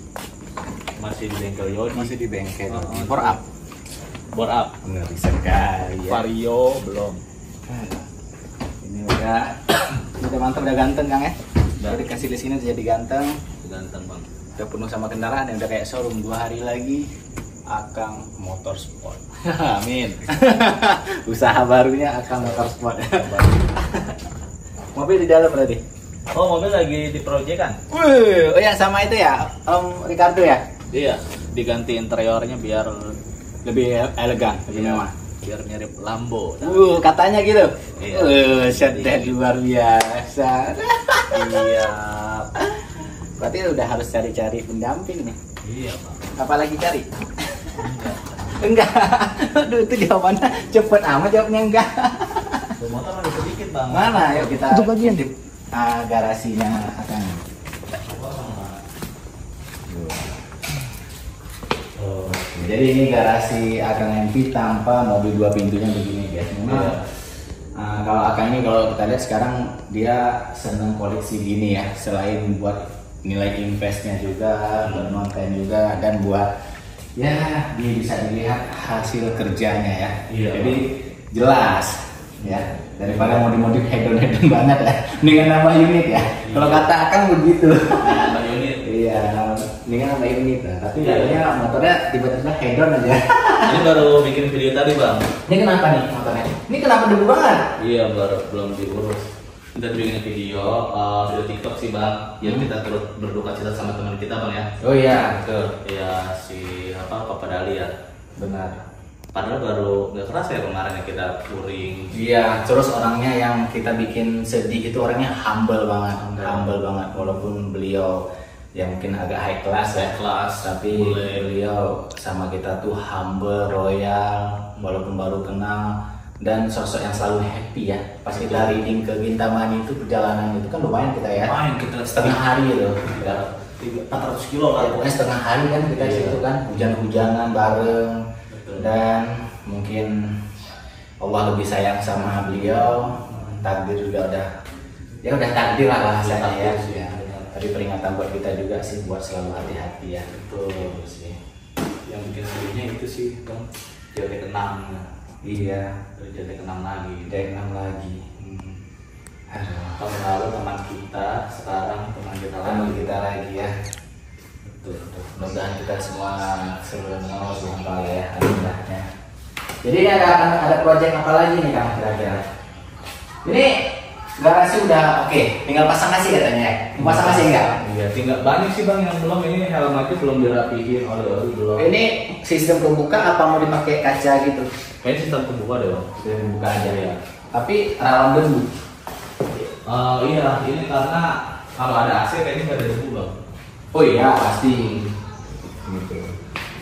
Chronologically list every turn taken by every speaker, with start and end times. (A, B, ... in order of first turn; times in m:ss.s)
0:01.0-0:02.1 A
0:01.9-0:03.4 B
0:02.7-0:03.4 A
0:04.3-0:04.7 A
0:04.8-0:06.2 B
0:06.1-0:07.2 A
0:07.7-0:08.0 B
0:08.8-0:13.4 B
0:11.8-0:12.1 A
0:13.6-0:14.3 A
0:14.6-0:17.1 B
0:17.7-0:24.2 B
0:22.4-0:23.7 A
0:24.9-0:25.8 B
0:26.3-0:27.8 A
0:27.9-0:30.6 B
0:30.9-0:33.2 A
0:33.6-0:35.1 B
0:34.7-0:37.1 A
0:36.6-0:41.7 B
0:37.9-0:39.5 A
0:41.3-0:42.5 A
0:42.6-0:45.4 B
0:45.6-0:46.3 A
0:46.3-0:47.8 B
0:47.8-0:48.7 A
0:48.6-0:52.8 B
0:52.8-0:54.8 A
0:53.9-0:57.4 B
0:58.0-0:58.8 A
0:59.9-1:00.4 B
1:02.0-1:02.5 A
1:02.4-1:07.0 B
1:06.7-1:07.0 A
1:07.8-1:16.5 B
1:14.8-1:15.2 A
1:17.2-1:34.0 B
1:20.3-1:20.8 A
1:22.4-1:23.5 A
1:26.4-1:26.9 A
1:28.0-1:29.5 A
1:31.0-1:31.4 A
1:33.6-1:35.3 A
1:35.5-1:37.6 B
1:37.8-1:44.7 A
1:44.8-1:45.7 B
1:45.7-1:47.9 A
1:48.4-1:48.8 B
1:49.3-1:52.2 A
1:52.1-1:58.2 B
1:56.2-1:56.8 A
1:58.8-2:11.5 B
2:00.0-2:01.5 A
2:08.3-2:08.8 A
2:11.4-2:12.5 A
2:12.1-2:13.4 B
2:13.0-2:15.2 A
2:14.8-2:18.2 B
2:15.9-2:16.4 A
2:18.5-2:18.9 A
2:18.8-2:20.3 B
2:21.2-2:24.5 B
2:23.2-2:23.6 A
2:25.2-2:30.3 B
2:26.1-2:27.6 A
2:30.3-2:31.3 A
2:32.1-2:35.1 A
2:35.4-2:36.0 B
2:36.2-2:37.3 A
2:37.2-2:38.4 B
2:39.5-2:40.0 B
2:40.0-2:43.1 A
2:42.6-2:43.7 B
2:44.7-2:45.3 A
2:45.2-2:49.1 B
2:49.8-2:52.4 B
2:53.4-2:53.8 B
2:54.4-2:57.7 B
2:57.0-3:01.9 A
3:01.8-3:04.7 B
3:05.0-3:06.1 A
3:06.2-3:08.7 B
3:06.9-3:07.1 A
3:09.9-3:13.4 A
3:13.9-3:15.1 B
3:15.9-3:16.4 B